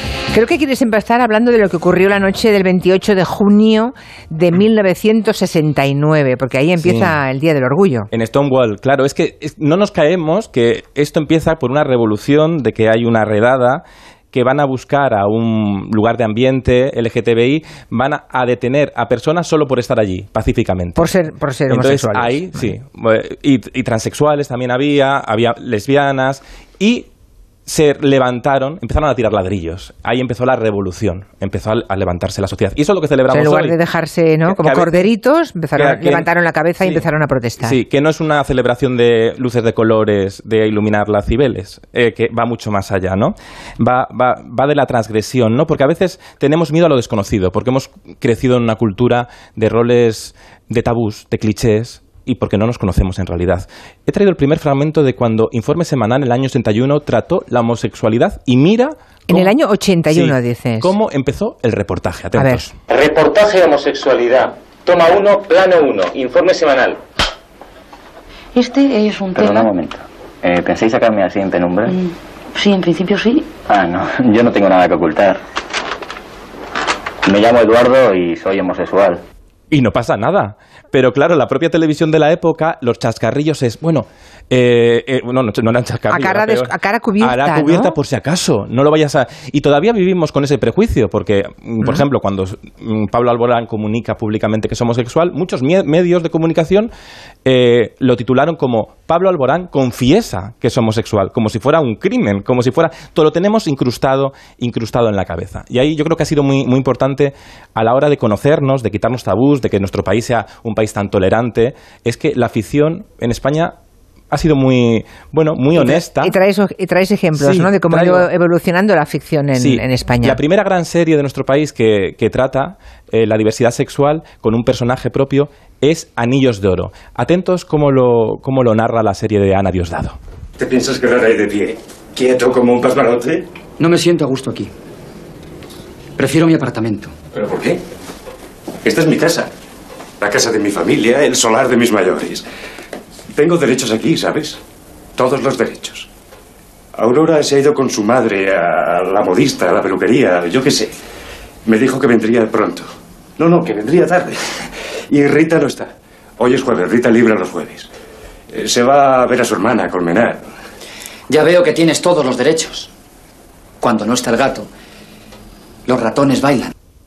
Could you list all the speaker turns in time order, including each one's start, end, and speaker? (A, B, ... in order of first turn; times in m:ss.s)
0:00.3-0:08.1 A
0:06.8-0:07.1 B
0:08.1-0:21.1 B
0:21.0-0:22.7 A
0:21.7-0:27.1 B
0:27.7-0:33.8 B
0:33.3-0:37.8 A
0:34.5-0:35.0 B
0:35.8-0:36.2 B
0:37.6-0:59.4 B
0:59.3-1:00.9 A
1:00.1-1:02.7 B
1:02.4-1:02.7 A
1:02.9-1:07.0 C
1:08.6-1:09.8 D
1:09.4-1:12.0 E
1:11.9-1:13.5 D
1:13.6-1:15.4 E
1:17.2-1:19.2 E
1:19.7-1:26.7 B
1:26.1-1:27.9 A
1:27.2-1:36.9 B
1:37.4-1:53.8 B
1:54.3-1:56.3 B
1:55.8-2:00.4 A
1:57.4-1:58.2 B
1:59.6-2:10.2 B
2:10.6-2:13.4 F
2:13.8-2:14.7 G
2:16.2-2:17.1 G
2:17.3-2:17.8 F
2:18.8-2:19.5 F
2:20.2-2:22.4 F
2:23.3-2:24.6 F
2:25.2-2:26.1 F
2:26.9-2:30.9 F
2:31.7-2:32.9 F
2:33.4-2:37.9 F
2:38.5-2:40.4 F
2:41.3-2:42.9 G
2:43.8-2:44.7 G
2:45.8-2:46.7 G